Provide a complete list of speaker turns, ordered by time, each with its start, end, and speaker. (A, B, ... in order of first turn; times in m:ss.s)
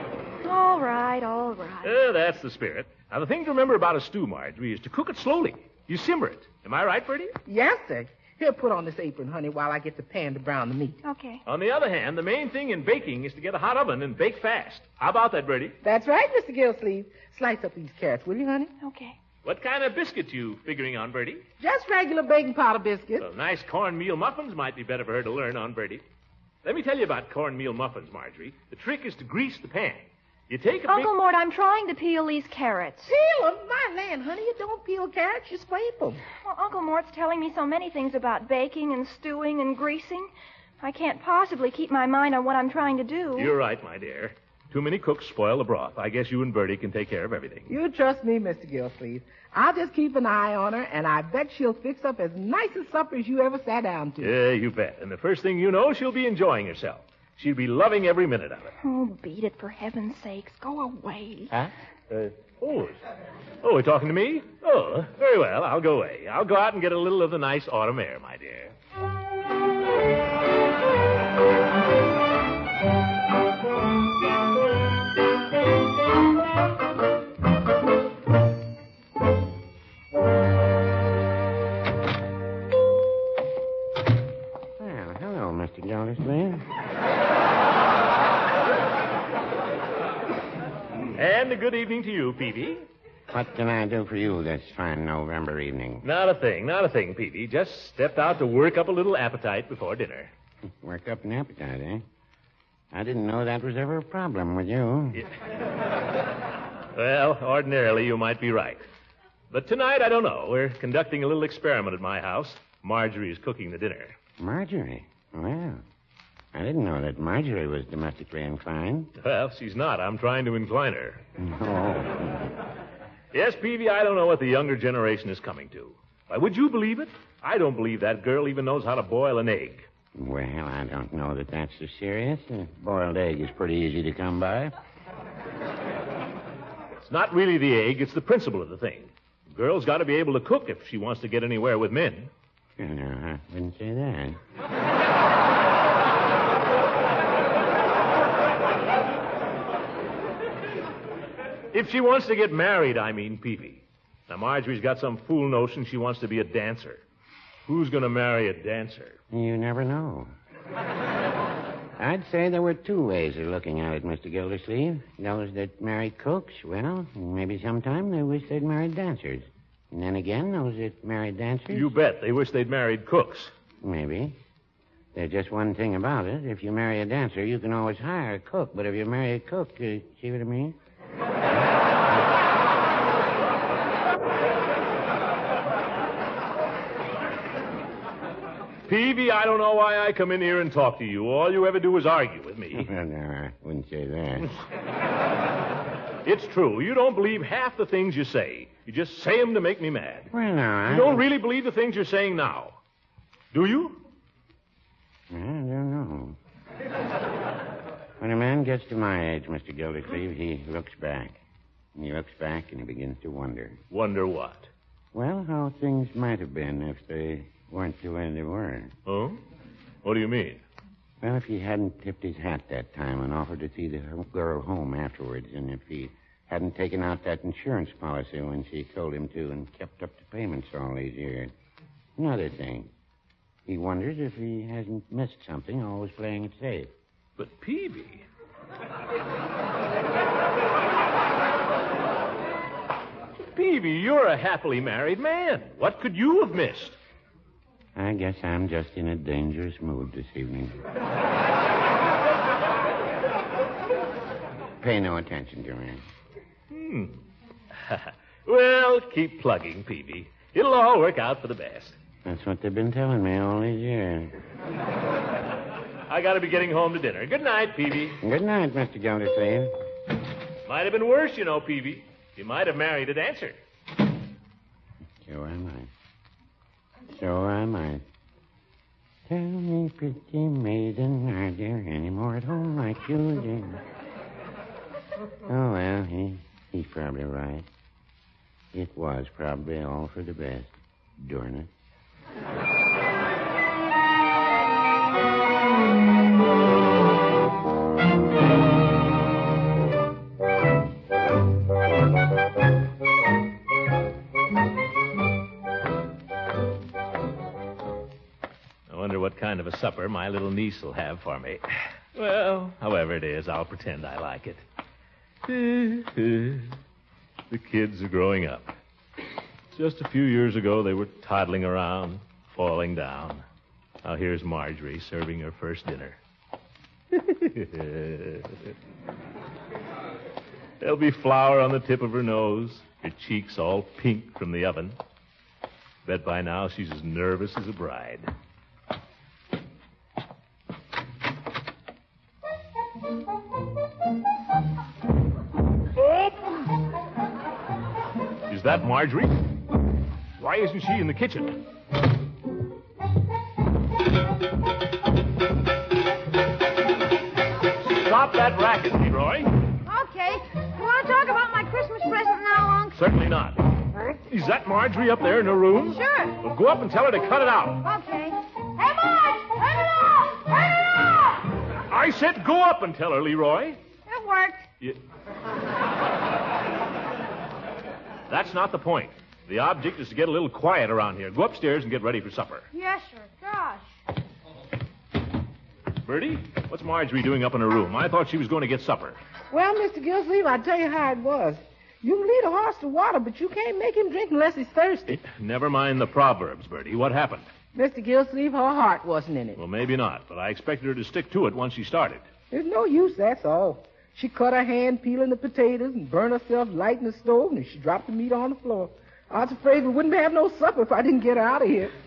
0:00.4-0:01.9 A
0:01.8-0:07.3 B
0:07.5-0:11.0 C
0:11.0-0:11.4 A
0:11.5-0:15.8 B
0:15.8-0:18.7 C
0:18.8-0:19.2 A
0:19.4-0:21.4 B
0:21.6-0:23.3 C
0:23.2-0:26.0 B
0:26.6-0:31.1 B
0:30.9-0:33.1 A
0:33.0-0:36.2 C
0:36.4-0:40.3 A
0:40.8-0:43.6 A
0:43.4-0:47.7 B
0:47.7-0:54.3 C
0:54.2-0:58.7 B
0:58.8-1:01.5 A
1:01.5-1:03.0 B
1:03.6-1:08.7 B
1:24.8-1:26.6 D
1:31.2-1:32.9 B
1:33.3-1:36.0 D
1:36.0-1:40.3 B
1:40.8-1:42.0 D
1:42.9-1:45.2 D
1:46.9-1:48.8 B
1:49.5-1:54.2 B
1:54.4-1:55.8 D
1:56.5-1:59.1 D
1:59.2-2:01.2 B
2:01.4-2:02.5 D
2:03.3-2:09.9 B
2:10.2-2:14.7 D
2:17.0-2:22.3 B
2:22.8-2:24.4 D
2:31.7-2:37.0 B
2:37.7-2:39.2 B
2:39.3-2:40.3 D
2:42.0-2:51.9 D
2:51.7-2:53.5 B
2:53.8-2:54.4 D
2:55.1-3:00.8 D
3:08.9-3:12.9 B
3:12.7-3:14.5 D
3:16.2-3:20.3 B
3:20.3-3:21.2 D
3:20.9-3:22.8 B
3:23.5-3:24.0 B
3:25.3-3:26.4 D
3:28.2-3:31.4 D
3:32.0-3:33.8 D
3:33.9-3:34.7 B
3:35.1-3:39.0 D
3:39.1-3:39.4 B
3:40.0-3:40.6 B
3:41.2-3:51.5 D
3:52.2-3:52.9 D
3:53.7-3:56.9 D
3:57.4-3:58.2 B
4:03.4-4:07.0 B
4:08.0-4:10.8 D
4:14.8-4:16.0 D
4:16.7-4:17.2 B
4:17.8-4:22.0 B
4:22.2-4:24.3 D
4:26.1-4:28.2 B
4:28.2-4:29.7 D
4:30.7-4:33.6 B
4:35.2-4:35.9 D
4:37.1-4:38.0 D
4:39.3-4:43.8 D
4:45.5-4:47.7 D
4:48.7-4:51.7 D
5:08.9-5:14.6 B
5:15.4-5:16.7 B
5:17.5-5:18.8 B
5:19.7-5:23.4 B
5:24.0-5:26.2 B
5:27.1-5:28.6 B
5:30.8-5:35.0 B
5:36.0-5:38.3 B
5:48.5-5:49.4 B
5:50.4-5:51.6 B
5:57.8-5:59.5 B
5:59.9-6:03.0 E
6:03.0-6:03.7 B
6:03.9-6:04.2 E
6:04.3-6:07.8 B
6:05.9-6:06.4 E
6:07.8-6:11.5 E
6:11.9-6:13.8 B
6:14.1-6:14.6 E
6:18.3-6:22.7 B
6:22.7-6:23.9 E
6:26.0-6:29.2 B
6:29.5-6:35.2 C
6:35.1-6:37.5 B
6:37.8-6:39.6 C
6:39.6-6:42.2 B
6:42.5-6:51.9 C